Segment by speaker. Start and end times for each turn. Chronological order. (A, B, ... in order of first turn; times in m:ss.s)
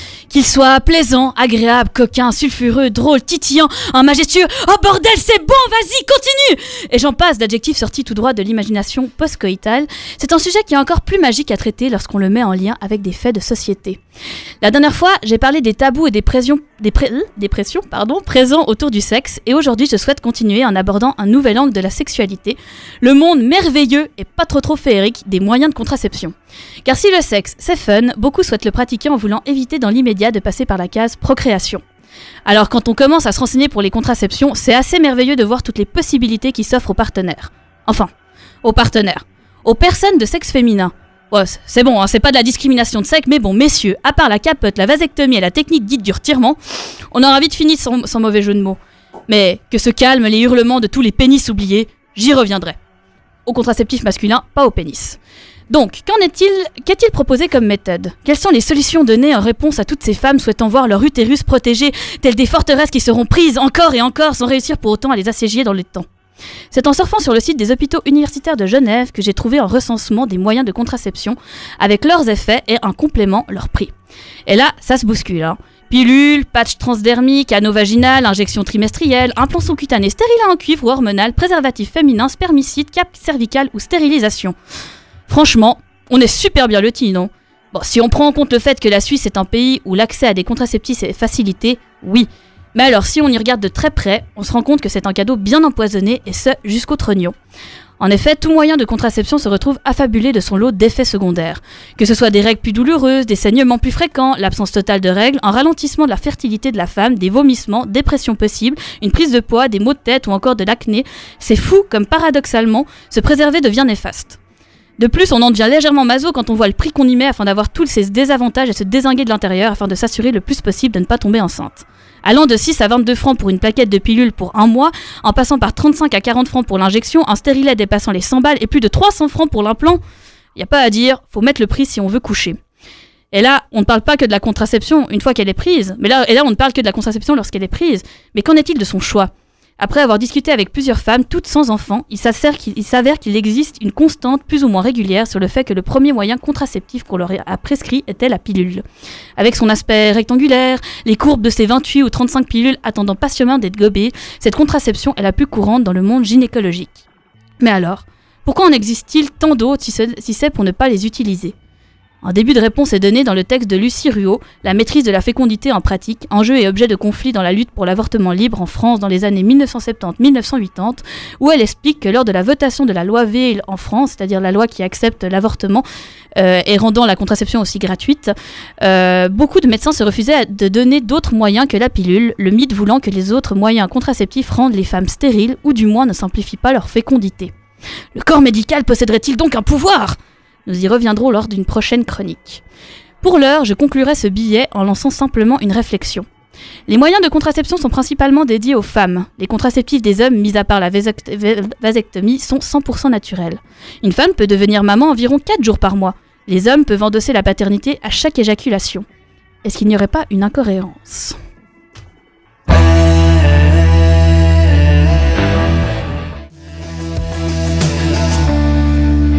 0:00.3-0:14.0 A
0:14.6-0:31.8 A
0:32.4-0:38.1 A
0:38.6-0:52.8 A
0:53.4-0:55.2 A
0:55.7-1:06.0 A
1:06.7-1:13.9 A
1:14.5-1:24.6 A
1:25.3-1:37.4 A
1:38.0-1:54.4 A
1:55.0-2:10.0 A
2:10.6-2:12.6 A
2:13.3-2:28.8 A
2:29.4-2:37.0 A
2:37.6-2:41.5 A
2:42.2-3:07.5 A
3:08.1-3:12.6 A
3:13.2-3:16.2 A
3:16.9-3:29.0 A
3:29.6-3:31.4 A